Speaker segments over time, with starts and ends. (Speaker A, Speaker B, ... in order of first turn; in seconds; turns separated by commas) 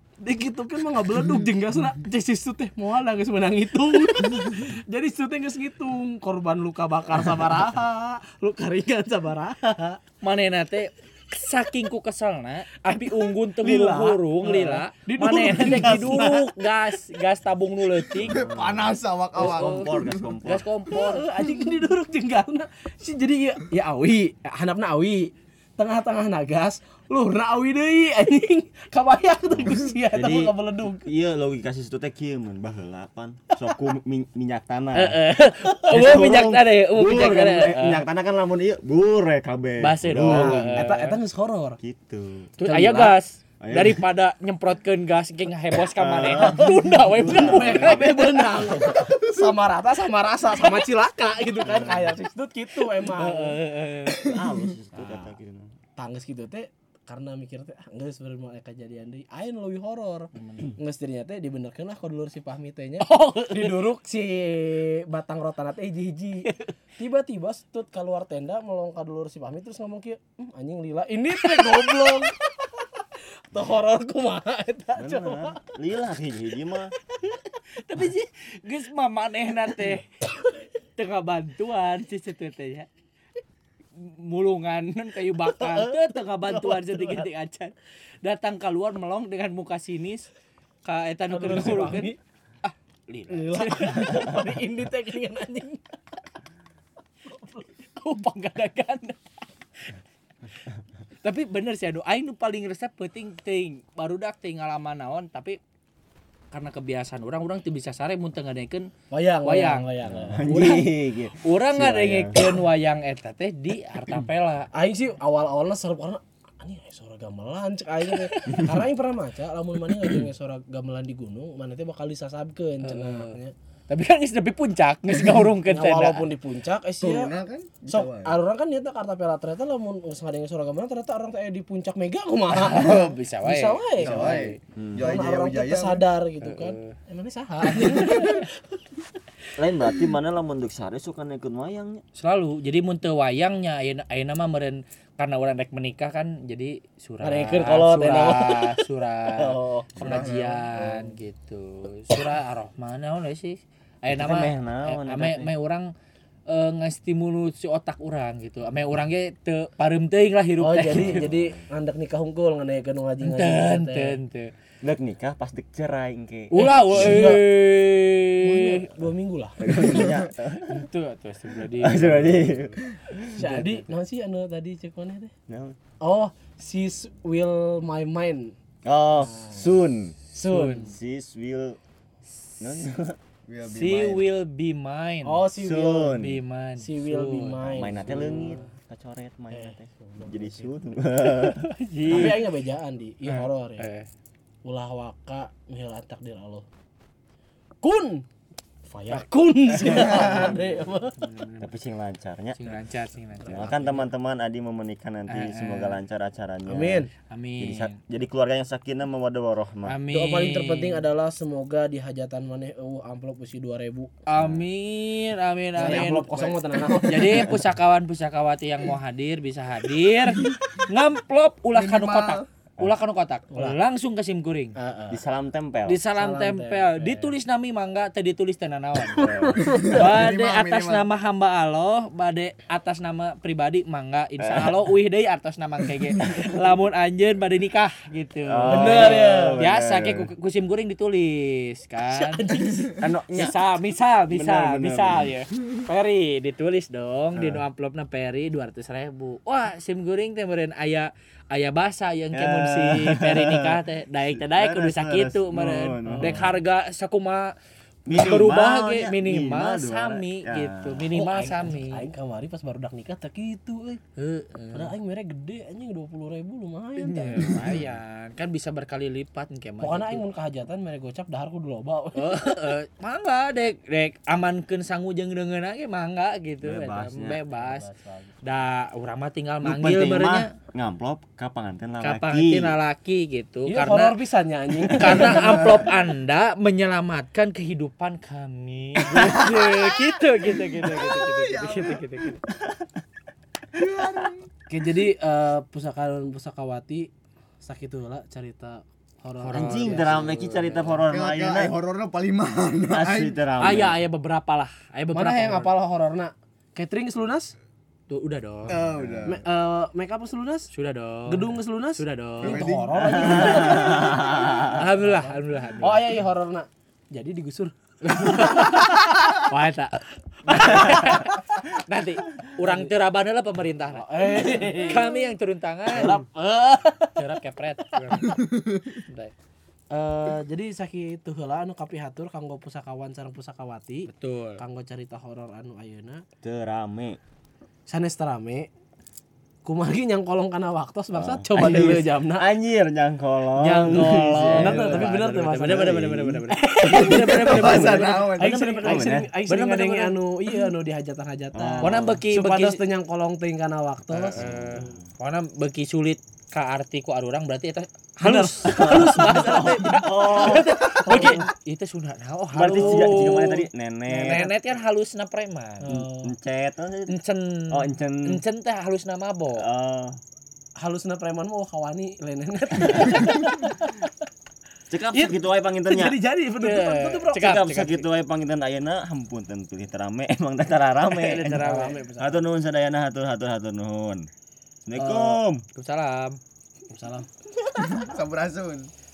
Speaker A: 0.2-10.0, Speaker B: 10.2-18.4, Speaker A: 12.9-16.6, Speaker C: 18.2-20.3, Speaker D: 18.2-20.7, Speaker B: 19.4-19.9, Speaker B: 20.4-21.3, Speaker A: 20.9-31.1, Speaker D: 29.5-35.2, Speaker B: 35.0-38.0, Speaker D: 35.9-41.1, Speaker B: 39.8-41.2, Speaker A: 40.3-41.8, Speaker D: 41.8-42.5, Speaker B: 42.6-48.8, Speaker A: 42.6-43.2, Speaker D: 43.6-44.0, Speaker D: 45.9-48.1, Speaker A: 46.4-53.6, Speaker B: 52.9-54.2, Speaker D: 54.2-55.8, Speaker A: 55.0-55.3, Speaker A: 56.0-75.6, Speaker B: 60.4-60.7, Speaker B: 63.0-63.9, Speaker B: 71.4-72.2, Speaker D: 75.0-76.9, Speaker B: 77.8-80.2, Speaker B: 81.0-82.9, Speaker B: 84.0-90.3, Speaker A: 85.5-87.3, Speaker B: 90.8-94.4, Speaker A: 91.3-92.2, Speaker A: 93.3-95.9, Speaker A: 97.3-97.9, Speaker B: 98.0-99.2, Speaker B: 101.2-105.6, Speaker B: 106.5-108.9, Speaker A: 109.1-110.9, Speaker B: 109.5-109.9, Speaker D: 110.0-112.6, Speaker B: 110.5-114.7, Speaker A: 114.7-123.5, Speaker B: 118.1-118.6, Speaker B: 122.8-123.4, Speaker B: 123.9-126.3, Speaker A: 125.7-127.3, Speaker C: 127.0-128.4, Speaker A: 127.9-134.4, Speaker B: 132.5-134.6, Speaker C: 134.0-136.1, Speaker D: 134.0-135.1, Speaker A: 135.0-138.8, Speaker B: 136.4-137.0, Speaker B: 137.7-138.5, Speaker D: 139.6-142.0, Speaker B: 142.2-155.9, Speaker A: 147.2-148.8, Speaker A: 149.4-150.1, Speaker C: 150.0-150.7, Speaker D: 150.0-150.3, Speaker D: 154.1-155.5, Speaker B: 156.5-161.3, Speaker A: 160.6-164.2, Speaker D: 161.0-161.7, Speaker B: 163.2-164.5, Speaker D: 164.8-167.3, Speaker B: 166.5-168.8, Speaker A: 166.6-167.4, Speaker A: 168.4-169.6, Speaker D: 169.6-170.9, Speaker B: 170.7-172.8, Speaker D: 171.6-173.4, Speaker B: 173.3-173.9, Speaker A: 173.3-175.3, Speaker D: 175.5-175.8, Speaker A: 176.0-178.6, Speaker D: 178.8-180.2, Speaker A: 179.2-179.7, Speaker A: 180.3-180.9, Speaker B: 180.4-180.9, Speaker D: 180.7-181.8, Speaker D: 182.6-183.2, Speaker C: 183.5-184.2, Speaker B: 183.7-185.4, Speaker A: 185.2-186.2, Speaker D: 185.6-186.4, Speaker B: 186.2-188.7, Speaker A: 186.8-188.7, Speaker D: 187.7-192.3, Speaker A: 189.5-190.8, Speaker B: 191.2-192.5, Speaker A: 192.1-193.9, Speaker B: 193.3-194.1, Speaker A: 194.6-196.7, Speaker A: 197.8-198.3, Speaker A: 198.9-201.2, Speaker B: 199.1-201.7, Speaker D: 199.9-200.8, Speaker D: 201.6-202.8, Speaker B: 202.6-204.0, Speaker A: 203.4-203.9, Speaker D: 203.5-210.0, Speaker B: 205.3-206.0, Speaker A: 206.7-207.1, Speaker B: 207.3-208.0, Speaker B: 209.8-211.1, Speaker A: 210.1-214.2, Speaker B: 214.3-224.8, Speaker D: 214.4-214.6, Speaker A: 215.8-217.6, Speaker C: 221.7-222.4, Speaker A: 224.8-225.2, Speaker D: 225.1-226.0, Speaker B: 225.9-229.3, Speaker A: 226.1-227.3, Speaker A: 229.1-230.1, Speaker D: 229.2-229.7, Speaker C: 229.6-231.1, Speaker B: 229.8-257.6, Speaker D: 234.4-234.9, Speaker D: 236.1-236.6, Speaker D: 238.5-240.3, Speaker A: 238.7-239.6, Speaker A: 242.1-243.0, Speaker D: 243.0-243.6, Speaker D: 244.3-245.4, Speaker D: 247.3-247.6, Speaker D: 252.3-256.5, Speaker A: 256.1-256.4, Speaker D: 258.1-261.1, Speaker B: 258.1-262.0, Speaker A: 261.1-264.0, Speaker B: 264.2-264.9, Speaker A: 264.7-267.6, Speaker B: 267.0-270.2, Speaker A: 269.8-272.8, Speaker B: 272.2-277.9, Speaker D: 276.6-277.4, Speaker A: 277.5-278.6, Speaker B: 278.4-280.5, Speaker D: 279.6-282.8, Speaker B: 282.0-284.2, Speaker A: 283.7-285.9, Speaker B: 284.9-292.4, Speaker D: 289.1-289.6, Speaker C: 289.4-292.4, Speaker D: 292.6-292.9, Speaker C: 293.7-294.5, Speaker A: 294.7-297.1, Speaker A: 297.6-300.4, Speaker B: 299.4-301.0, Speaker D: 299.5-301.8, Speaker C: 301.1-303.4, Speaker D: 302.9-304.0, Speaker B: 303.6-305.7, Speaker A: 305.1-307.5, Speaker B: 308.1-308.8, Speaker C: 308.7-309.4, Speaker D: 308.8-309.4, Speaker A: 309.2-310.7, Speaker B: 310.7-312.7, Speaker A: 311.3-319.0, Speaker C: 312.4-313.8, Speaker D: 313.1-314.8, Speaker B: 314.6-316.1, Speaker B: 318.0-326.2, Speaker A: 320.5-321.4, Speaker A: 322.6-322.9, Speaker A: 323.9-325.3, Speaker A: 325.9-327.1, Speaker B: 327.1-328.4, Speaker C: 328.1-329.0, Speaker B: 329.0-329.4, Speaker A: 329.9-336.2, Speaker B: 334.1-334.6, Speaker D: 336.4-337.2, Speaker A: 337.9-338.7, Speaker A: 339.6-342.5, Speaker D: 341.1-346.5, Speaker A: 343.6-354.9, Speaker B: 343.9-348.3, Speaker C: 346.8-349.1, Speaker D: 347.4-348.0, Speaker D: 348.8-349.3, Speaker B: 349.1-350.2, Speaker D: 351.5-352.2, Speaker B: 351.8-352.8, Speaker B: 354.1-366.0, Speaker D: 354.4-355.0, Speaker A: 358.2-361.4, Speaker D: 358.7-361.4, Speaker D: 362.5-364.5, Speaker A: 364.1-364.5, Speaker A: 365.8-366.3, Speaker D: 365.9-367.2, Speaker B: 367.1-369.6, Speaker D: 367.7-368.4, Speaker D: 369.6-370.2, Speaker A: 370.8-374.1, Speaker D: 374.9-376.2, Speaker A: 375.1-378.0, Speaker B: 376.6-378.0, Speaker D: 377.4-381.7, Speaker B: 381.1-382.0, Speaker A: 381.4-382.4, Speaker D: 382.2-384.3, Speaker D: 384.9-385.6, Speaker A: 385.0-385.4, Speaker B: 385.7-386.4, Speaker A: 386.9-387.3, Speaker C: 387.7-388.9